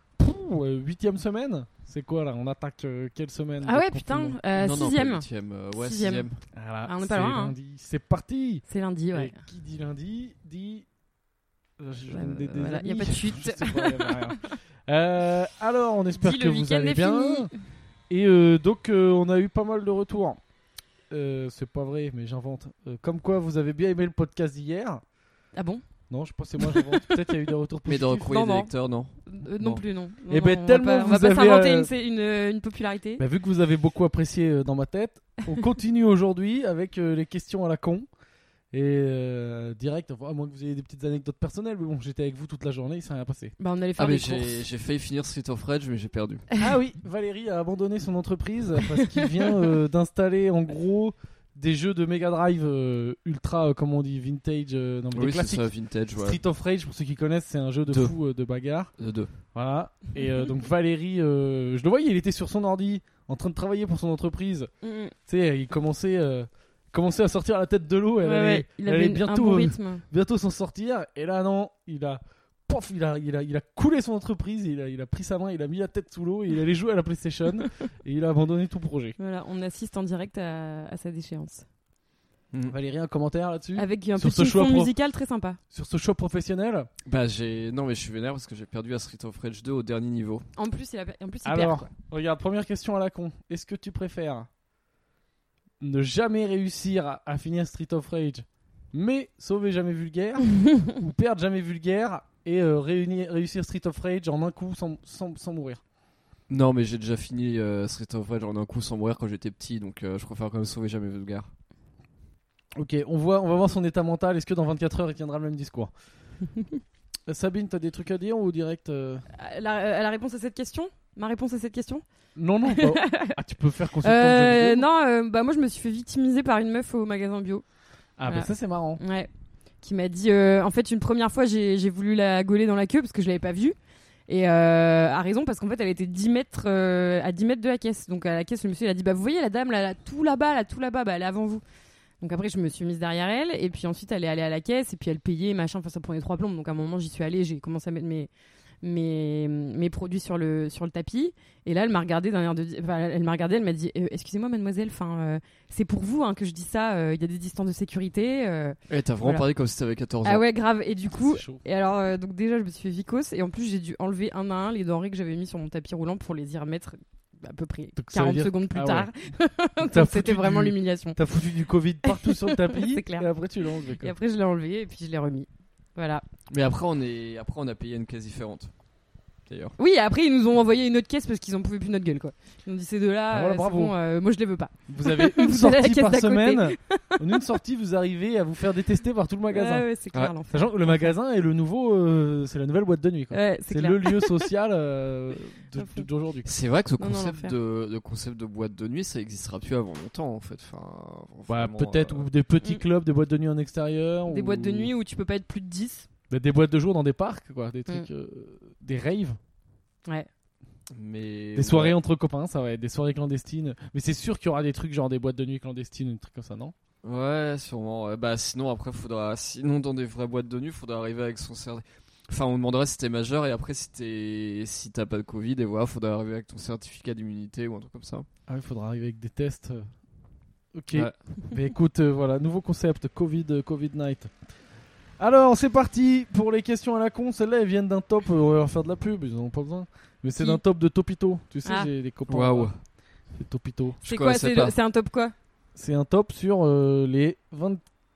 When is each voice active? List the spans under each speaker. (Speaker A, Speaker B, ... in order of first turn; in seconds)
Speaker A: 0.2-4.4, 6.5-10.9, 11.8-17.5, 18.1-20.4, 21.1-25.0, 26.1-28.3, 30.3-31.9, 33.2-38.1, 38.7-43.5, 46.6-58.9, 59.5-64.7, 65.3-79.2, 82.7-84.9, 85.7-86.9, 91.5-94.5, 95.8-105.8, 112.8-115.9, 117.3-119.2, 122.4-124.8, 128.2-129.0, 161.2-161.6, 168.0-169.1, 169.8-174.1, 183.3-183.9, 184.9-189.8, 190.5-196.5, 201.5-204.9, 206.3-209.4, 211.6-216.7, 228.5-229.9, 230.7-234.3, 235.2-242.7, 243.4-244.0, 245.8-247.8
Speaker B: 3.6-6.3, 6.8-7.5, 8.7-9.4, 12.1-14.4, 16.2-17.6, 25.5-25.8, 26.6-27.1, 28.3-28.7, 29.3-33.2, 43.6-44.6, 49.1-49.7, 64.8-65.1, 68.2-70.0, 79.2-81.7, 83.8-85.6, 90.6-91.9, 119.3-122.0, 122.7-123.3, 124.0-127.6, 128.3-129.3, 129.8-133.8, 134.3-141.6, 142.2-148.3, 148.8-159.4, 160.2-171.2, 172.1-173.3, 173.8-176.2, 179.8-187.4, 189.5-191.1, 193.3-194.5, 195.8-196.1, 197.0-197.5, 204.3-206.1, 241.7-241.9, 244.1-245.3
Speaker C: 4.5-6.4, 27.9-29.8, 44.0-46.5, 55.1-56.4, 57.9-58.1, 59.0-59.3, 87.1-90.5, 106.5-111.5, 158.9-160.4, 176.5-178.7, 179.5-179.8, 196.4-202.3, 210.9-212.0, 217.0-228.3, 242.3-242.8, 244.0-244.8